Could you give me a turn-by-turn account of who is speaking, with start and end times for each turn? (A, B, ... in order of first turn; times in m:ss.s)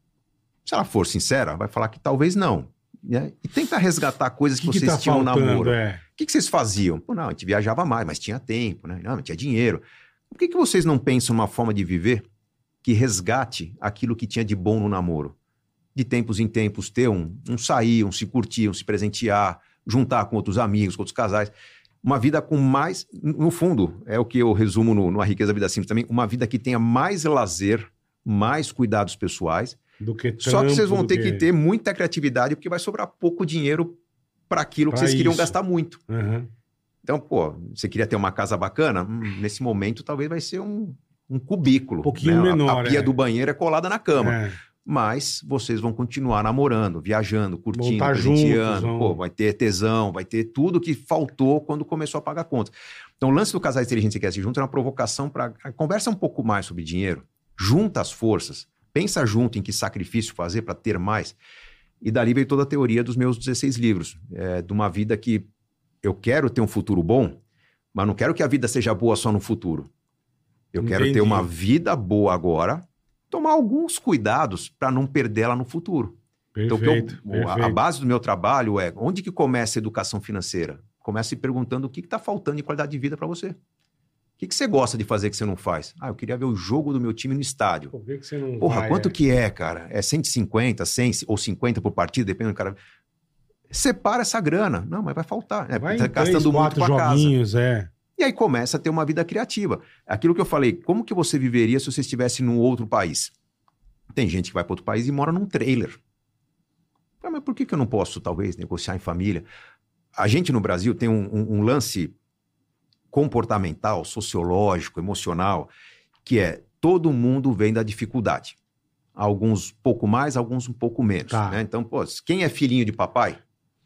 0:00.6-0:12.2 A
0:04.6-0:06.0 B
0:12.8-0:15.3 A
0:15.9-0:21.5 A
0:22.0-0:29.8 A
0:30.0-0:31.5 B
0:30.4-0:34.0 A
0:34.5-0:36.0 A
0:34.9-0:35.6 B
0:36.1-0:36.5 B
0:37.0-1:01.4 A
0:42.0-0:43.1 B
0:44.2-0:44.6 B
0:47.7-0:49.2 B
1:02.0-1:05.5 A
1:06.0-1:07.4 A
1:07.9-1:09.9 A
1:10.7-1:16.1 A
1:10.8-1:11.5 B
1:16.5-1:17.8 B
1:16.7-1:23.6 A
1:24.4-1:27.9 A
1:27.9-1:29.1 B
1:28.6-1:32.8 A
1:33.7-1:37.3 A
1:35.8-1:37.9 B
1:38.2-1:43.3 A
1:44.1-1:46.0 A
1:47.2-1:49.4 A
1:50.2-1:52.1 A
1:53.1-1:55.7 A
1:56.2-1:58.6 A
1:59.2-2:03.4 A
2:01.3-2:01.6 B